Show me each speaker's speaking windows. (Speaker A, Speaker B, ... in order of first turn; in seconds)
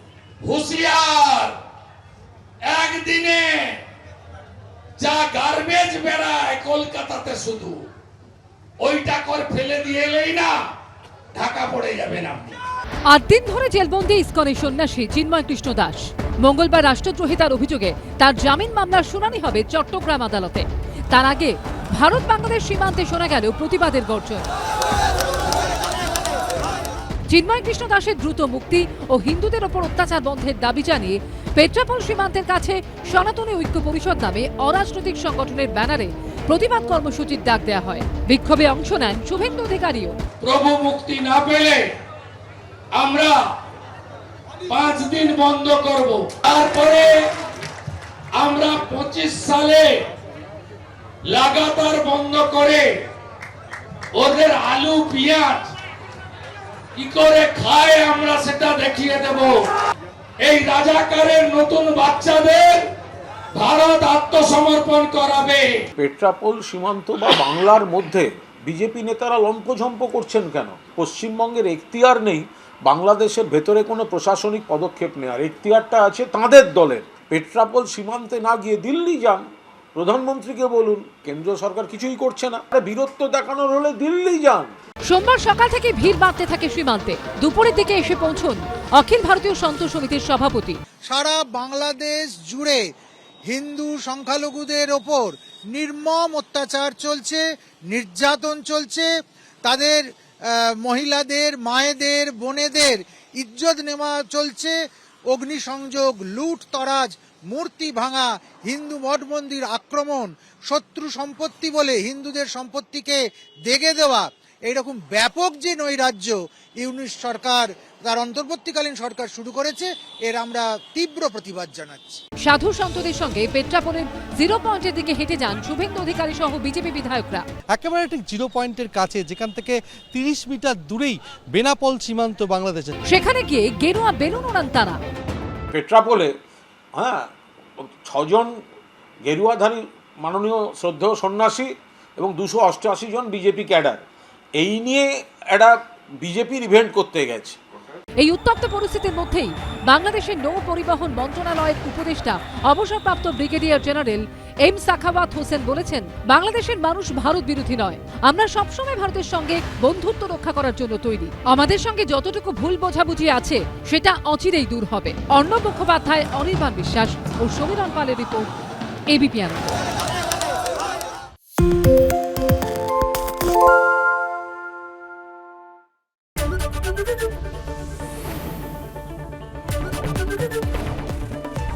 Speaker A: 0.4-1.5, 2.7-3.8, 5.0-7.8, 8.8-10.6, 11.3-12.6, 40.4-41.8, 43.0-43.4, 44.7-47.2, 48.4-49.9, 51.3-52.9, 54.2-55.7, 57.0-59.6, 60.4-62.9, 63.5-65.7
Speaker B: 13.1-24.5, 27.3-40.1, 85.1-90.8, 122.4-127.5, 133.1-135.0, 148.2-168.5, 169.1-169.7
Speaker C: 66.0-79.4, 80.0-84.7, 135.7-136.3, 136.9-137.2, 137.8-138.5, 139.2-144.0, 144.6-147.6
Speaker D: 91.1-92.8, 93.5-97.4, 97.9-99.1, 99.7-100.0, 100.6-104.7, 105.3-122.2
Speaker E: 127.7-132.9